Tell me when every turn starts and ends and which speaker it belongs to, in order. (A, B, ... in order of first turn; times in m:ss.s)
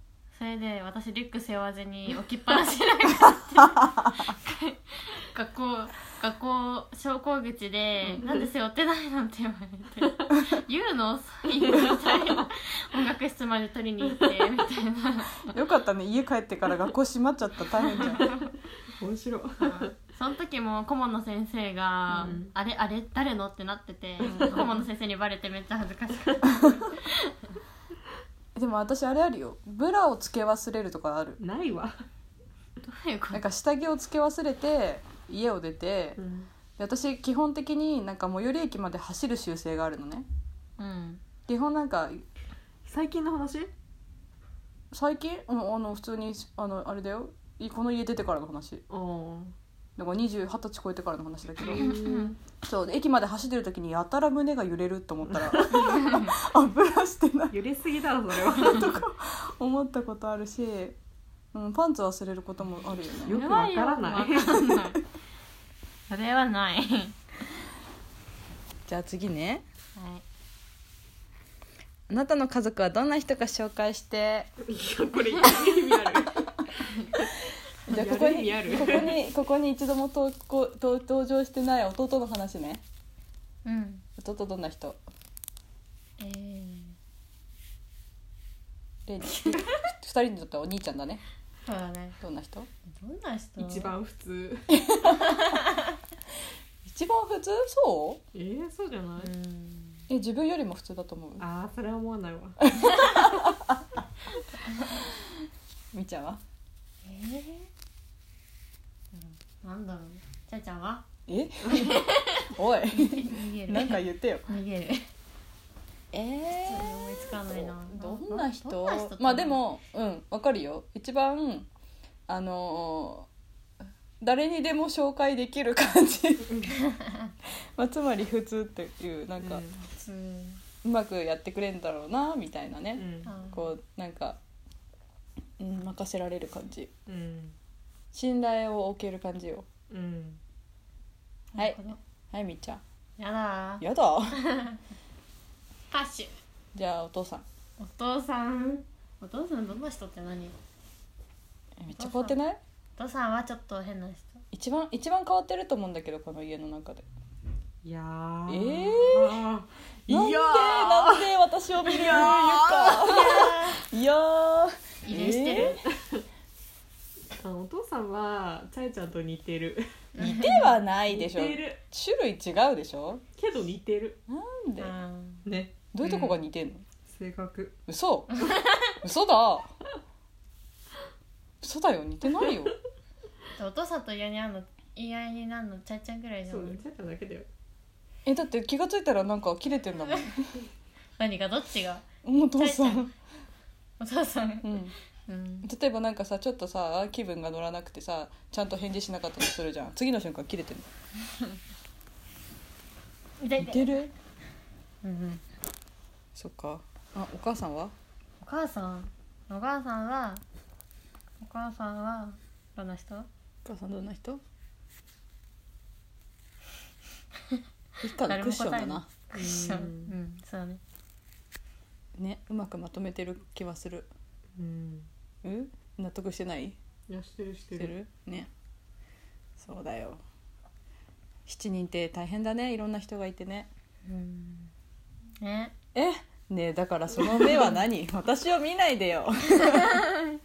0:00.3-0:15.5 A
0:03.6-0:04.3 B
0:08.2-0:08.5 C
0:14.0-0:14.5 C
0:15.5-0:18.2 B
0:18.2-0:18.4 A
0:19.0-0:19.9 C
0:19.6-0:27.3 A
0:22.1-0:22.5 C
0:24.2-0:24.8 C
0:24.3-0:24.7 B
0:28.6-0:31.4 B
0:31.4-0:31.9 C
0:32.8-0:33.4 A
0:33.3-0:36.2 B
0:36.2-0:36.5 C
0:36.8-0:40.2 B
0:40.8-0:41.2 A
0:41.5-0:42.2 B
0:42.8-0:43.7 C
0:44.9-0:48.8 B
0:48.9-0:49.5 C
0:50.0-0:51.9 B
0:51.6-0:52.4 C
0:51.8-0:52.3 A
0:52.6-0:57.6 B
0:55.3-0:56.0 C
0:55.8-0:56.3 A
0:57.5-0:59.0 C
0:58.5-1:01.0 B
1:01.5-1:03.5 B
1:03.2-1:04.6 C
1:03.3-1:05.0 A
1:06.1-1:07.2 A
1:08.9-1:09.6 B
1:10.0-1:10.2 A
1:12.1-1:14.5 B
1:14.6-1:16.5 C
1:17.9-1:19.2 C
1:17.9-1:22.8 B
1:23.6-1:24.0 A
1:24.2-1:25.0 B
1:26.2-1:27.0 A
1:29.1-1:31.2 B
1:29.3-1:29.8 A
1:31.6-1:32.2 A
1:32.2-1:32.7 B
1:32.9-1:33.9 A
1:33.6-1:34.7 C
1:34.7-1:35.4 B
1:35.0-1:35.9 A
1:36.8-1:38.2 B
1:38.3-1:39.3 C
1:39.2-1:40.0 A
1:40.1-1:41.4 B
1:41.4-1:42.6 C
1:42.6-1:43.8 B
1:42.8-1:43.2 A
1:45.9-1:46.4 B
1:47.0-1:47.7 A
1:49.1-1:51.0 A
1:51.3-1:54.4 B
1:51.6-1:55.1 A
1:56.1-2:01.7 B
1:56.6-1:59.6 A
2:02.3-2:03.3 B
2:04.2-2:06.6 B
2:06.8-2:07.3 A
2:07.8-2:09.6 B
2:09.4-2:09.9 C
2:09.9-2:10.6 A
2:10.8-2:14.4 B
2:13.0-2:13.3 C
2:13.2-2:13.7 A
2:15.6-2:16.9 B
2:17.0-2:17.5 C
2:18.1-2:19.6 B
2:19.9-2:20.4 C
2:21.5-2:22.0 A
2:21.6-2:21.8 B
2:22.3-2:22.8 B
2:23.2-2:23.8 A
2:23.8-2:24.4 B
2:24.4-2:24.8 A
2:25.9-2:26.3 A
2:26.7-2:27.4 B
2:27.8-2:30.6 A
2:31.8-2:32.6 B
2:31.9-2:32.4 A
2:33.0-2:34.4 A
2:34.5-2:37.0 B
2:37.8-2:41.3 C
2:38.5-2:39.4 B
2:40.1-2:45.8 B
2:41.8-2:43.6 C
2:43.0-2:43.8 A
2:45.0-2:45.8 A
2:45.6-2:46.2 C
2:47.4-2:49.9 C
2:50.2-2:50.7 A
2:50.2-2:53.2 B
2:51.1-2:51.8 C
2:53.4-2:54.2 C
2:54.3-2:54.9 B
2:54.8-2:55.4 A
2:55.4-2:55.8 C
2:55.9-2:56.8 B
2:56.0-2:56.4 A
2:57.1-2:57.8 C
2:57.9-2:58.3 B
2:58.3-2:58.9 A
2:59.0-2:59.7 B
3:01.6-3:02.7 B
3:02.4-3:02.7 C
3:03.6-3:06.8 A
3:06.5-3:07.5 C
3:08.2-3:10.5 B
3:11.2-3:12.0 A
3:12.2-3:13.1 B
3:12.6-3:13.1 A
3:14.0-3:15.7 A
3:14.6-3:14.9 B
3:15.6-3:20.9 B
3:21.3-3:21.6 A
3:23.4-3:23.9 A
3:23.6-3:24.1 B
3:25.0-3:25.4 A
3:26.3-3:27.9 B
3:28.4-3:30.4 A
3:31.4-3:33.3 A
3:33.6-3:34.4 B
3:38.0-3:39.1 B
3:38.2-3:40.8 A
3:39.3-3:40.1 C
3:42.2-3:44.1 B
3:44.6-3:45.1 C
3:45.4-3:46.8 B
3:47.1-3:47.9 C
3:47.7-3:48.5 B
3:49.6-3:50.2 B
3:51.5-3:53.7 B
3:54.0-3:54.7 A
3:55.4-3:55.7 A
3:55.9-4:00.1 B
3:57.3-3:57.7 C